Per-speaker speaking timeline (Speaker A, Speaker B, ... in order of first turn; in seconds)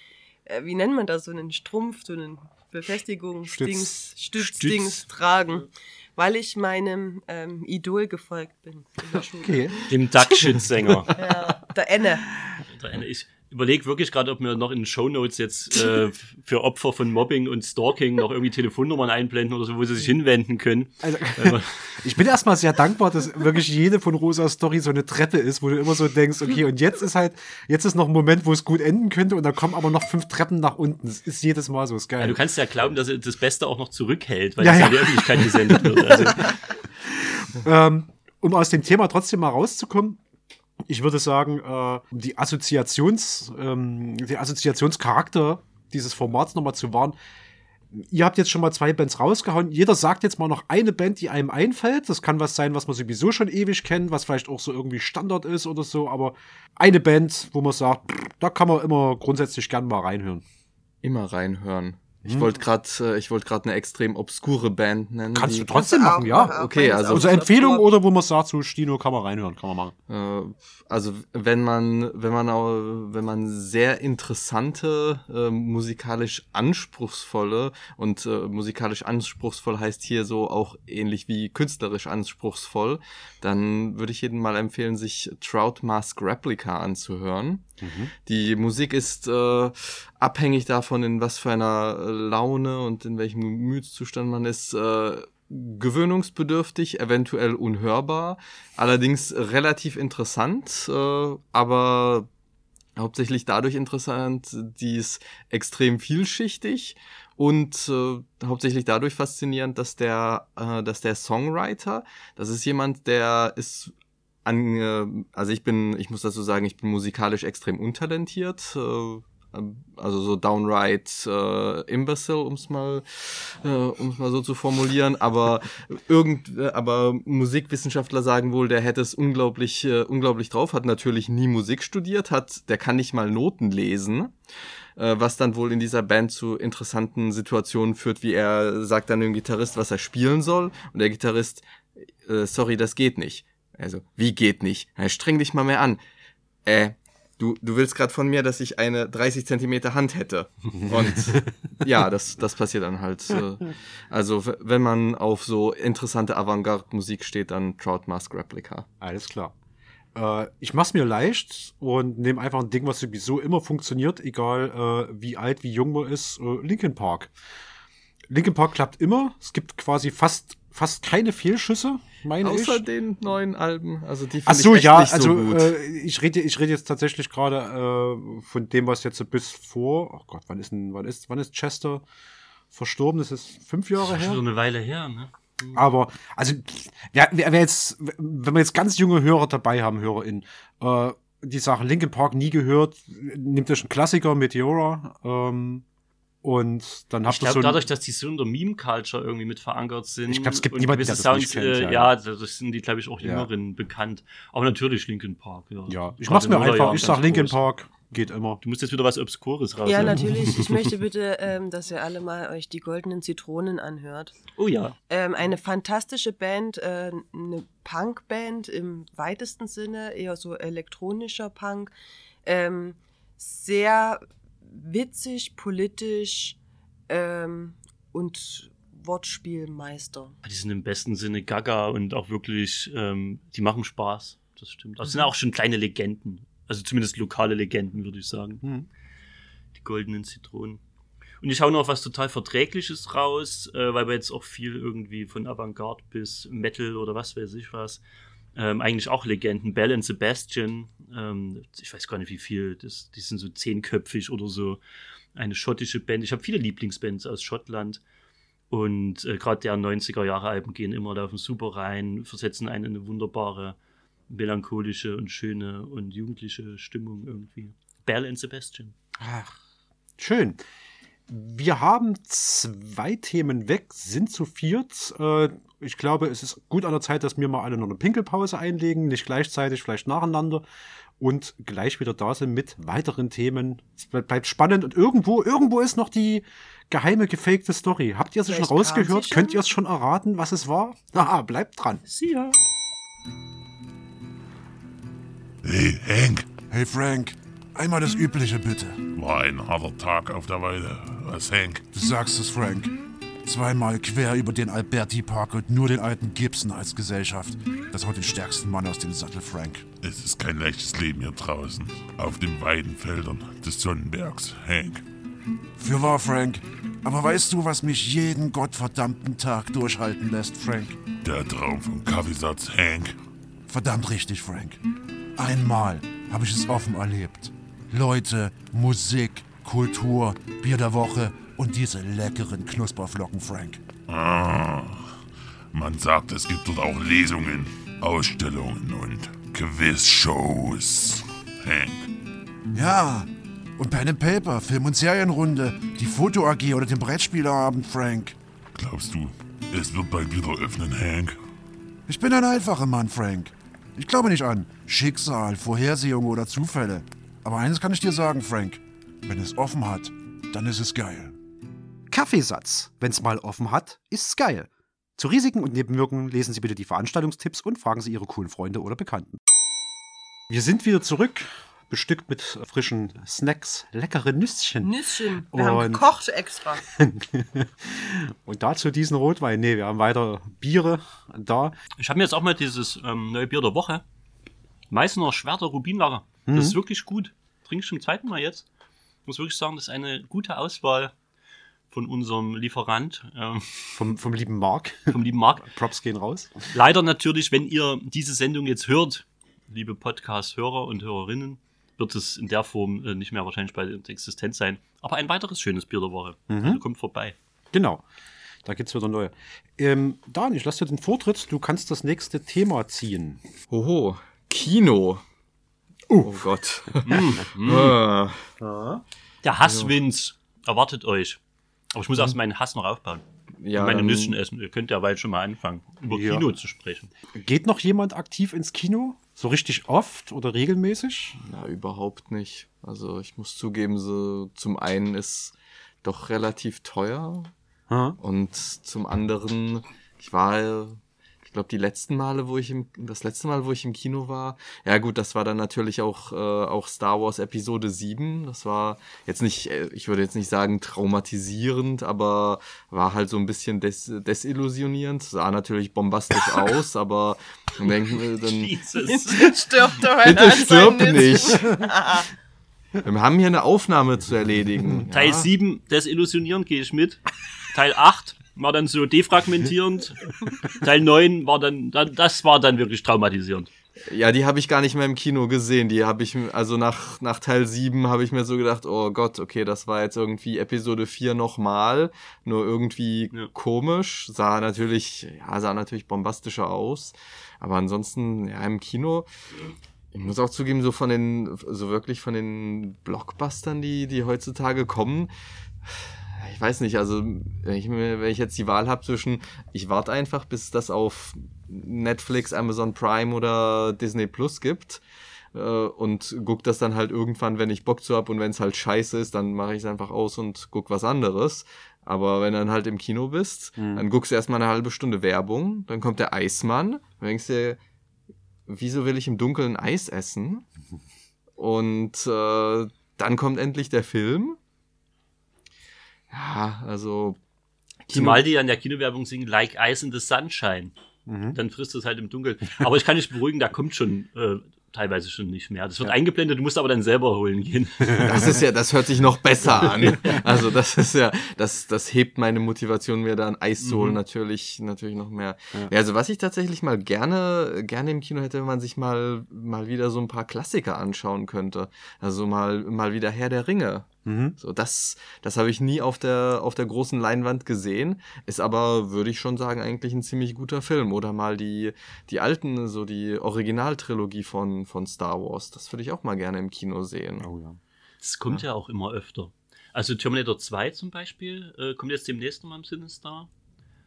Speaker A: 0.5-9.9, 11.1-12.2, 65.7-67.9, 209.8-214.3, 215.1-221.9, 222.4-226.6, 227.1-230.3, 288.5-289.6, 374.8-376.8, 459.0-462.3
Speaker B: 3.5-4.0, 9.4-9.9, 21.0-32.4, 34.6-40.2, 40.9-47.1, 47.9-60.4, 62.3-62.5, 65.3-69.9, 87.8-88.1, 159.0-159.5, 160.1-167.3, 168.3-172.8, 174.4-182.0, 182.7-184.4, 185.7-195.8, 196.4-197.8, 200.3-202.1, 203.2-203.5, 205.9-208.6, 210.0-210.3, 269.2-269.5, 270.2-270.6, 271.3-280.6, 281.2-292.0, 362.1-369.4, 370.5-374.9, 375.5-376.1, 376.9-381.7, 386.5-386.8, 393.9-396.7, 406.5-406.8, 407.7-408.0, 408.6-413.4, 416.1-416.4, 418.6-419.0, 426.1-426.4, 427.3-431.4, 437.9-438.2, 513.8-514.0, 531.3-531.6, 538.1-538.4, 554.2-554.5, 567.4-567.8
Speaker C: 4.4-5.0, 9.9-11.1, 12.7-22.0, 32.2-36.5, 184.0-185.8, 197.2-207.6, 208.6-210.8, 214.6-214.9, 230.4-238.6, 239.7-240.8, 241.4-248.0, 248.6-254.8, 255.3-258.0, 258.7-263.8, 264.3-268.9, 292.1-292.6, 382.0-384.0, 384.9-388.6, 389.2-391.1, 391.9-394.0, 395.1-395.7, 396.7-407.4, 417.1-417.9, 419.4-421.4, 421.9-423.2, 423.7-427.1, 458.4-459.6, 465.1-467.2, 467.7-473.7, 528.1-530.9, 531.5-538.5, 540.0-540.4, 543.8-544.2, 568.2-573.5
Speaker D: 61.0-65.8, 66.3-67.3, 70.1-87.7, 88.2-102.3, 103.0-113.9, 114.4-134.3, 135.0-141.6, 142.2-146.0, 146.6-158.9, 172.4-175.7, 413.7-415.2, 416.2-418.4, 419.6-419.9, 423.6-424.4, 431.4-437.5, 438.2-458.8, 460.2-461.9, 463.0-465.4, 474.1-489.3, 490.1-495.3, 495.9-505.0, 505.5-517.8, 518.7-520.6, 521.6-524.6, 526.3-527.4, 528.1-528.4, 538.2-567.5
Speaker E: 295.6-296.6, 299.1-301.8, 310.0-315.0, 321.2-323.1, 334.1-335.2, 335.7-342.1, 348.7-351.4
Speaker F: 296.6-299.0, 301.9-309.9, 315.8-321.0, 323.7-324.8, 325.4-333.8, 342.7-348.4, 352.1-361.3